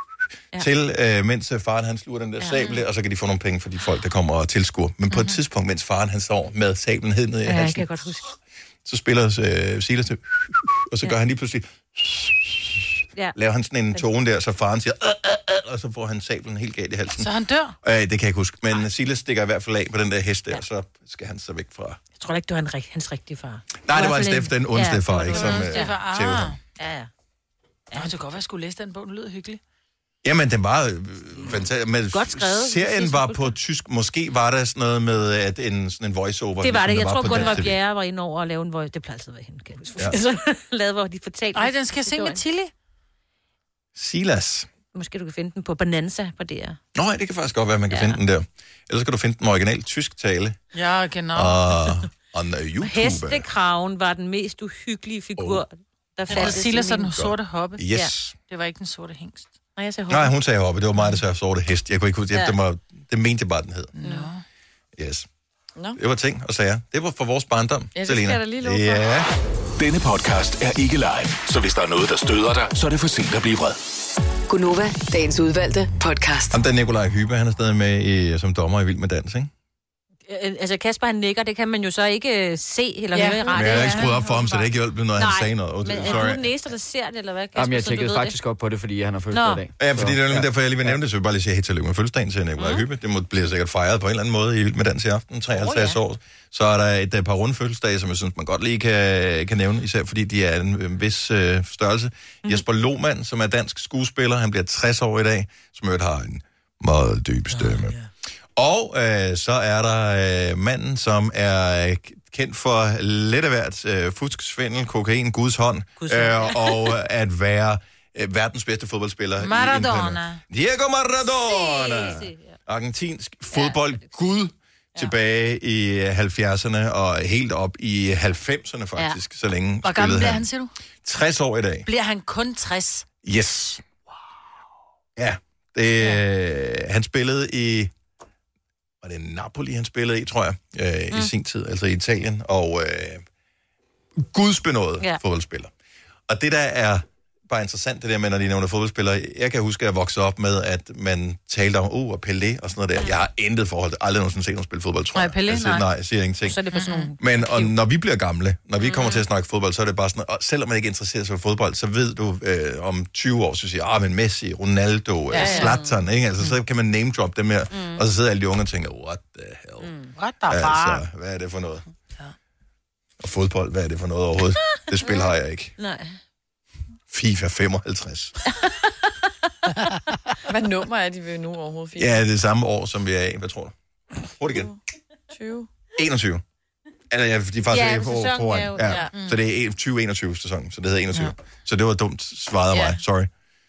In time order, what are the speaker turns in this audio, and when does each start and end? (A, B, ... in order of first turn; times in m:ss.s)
0:00.5-0:08.1 A
0:02.4-0:02.8 B
0:07.5-0:08.3 B
0:08.8-0:17.3 A
0:17.1-0:17.8 C
0:17.8-0:22.0 A
0:22.2-0:26.0 B
0:23.8-0:26.6 A
0:25.3-0:26.6 C
0:26.8-0:27.1 B
0:27.9-0:29.6 C
0:30.2-0:37.8 A
0:32.1-0:33.5 B
0:36.6-0:42.4 B
0:37.3-0:37.6 C
0:41.6-0:42.7 C
0:44.0-0:44.7 A
0:44.9-0:46.8 B
0:47.0-0:50.6 A
0:47.9-0:48.2 B
0:50.7-0:51.7 C
0:51.3-0:53.5 A
0:52.8-0:57.2 B
0:55.4-0:55.6 A
0:56.3-0:58.4 A
0:56.3-0:59.5 C
0:59.8-1:00.3 B
1:00.1-1:03.9 A
1:04.0-1:04.4 C
1:04.0-1:04.3 B
1:05.0-1:05.3 A
1:06.0-1:09.3 A
1:08.0-1:09.1 D
1:09.8-1:13.8 E
1:14.5-1:16.6 F
1:16.5-1:19.5 A
1:20.3-1:24.4 B
1:23.2-1:24.6 C
1:23.5-1:26.5 A
1:25.2-1:28.4 B
1:27.6-1:30.9 G
1:29.3-1:29.6 B
1:29.8-1:47.9 A
1:32.6-1:32.8 B
1:35.6-1:36.0 B
1:47.5-1:48.0 B
1:48.6-2:10.5 A
1:56.0-1:56.9 B
1:59.4-2:00.4 C
2:01.3-2:02.6 B
2:03.5-2:03.8 B
2:09.8-2:10.7 C
2:11.0-2:11.9 A
2:11.9-2:13.1 C
2:13.2-2:13.8 A
2:15.2-2:17.9 A
2:19.0-2:23.2 A
2:24.2-2:25.7 A
2:26.3-2:36.6 A
2:35.2-2:35.9 C
2:36.4-2:37.7 B
2:36.7-2:37.1 C
2:37.2-2:49.9 A
2:38.8-2:39.2 B
2:45.3-2:45.8 C
2:45.4-2:46.5 B
2:47.7-2:48.0 B
2:49.8-2:50.1 B
2:50.2-2:51.0 C
2:50.5-2:51.8 A
2:53.2-2:55.7 A
2:55.8-2:56.2 B
2:57.1-2:58.4 A
3:00.5-3:02.2 D
3:02.0-3:03.8 A
3:04.3-3:04.7 A
3:05.3-3:05.7 D
3:06.0-3:06.4 A
3:07.1-3:13.3 A
3:07.7-3:09.0 B
3:09.1-3:09.4 C
3:12.7-3:13.0 D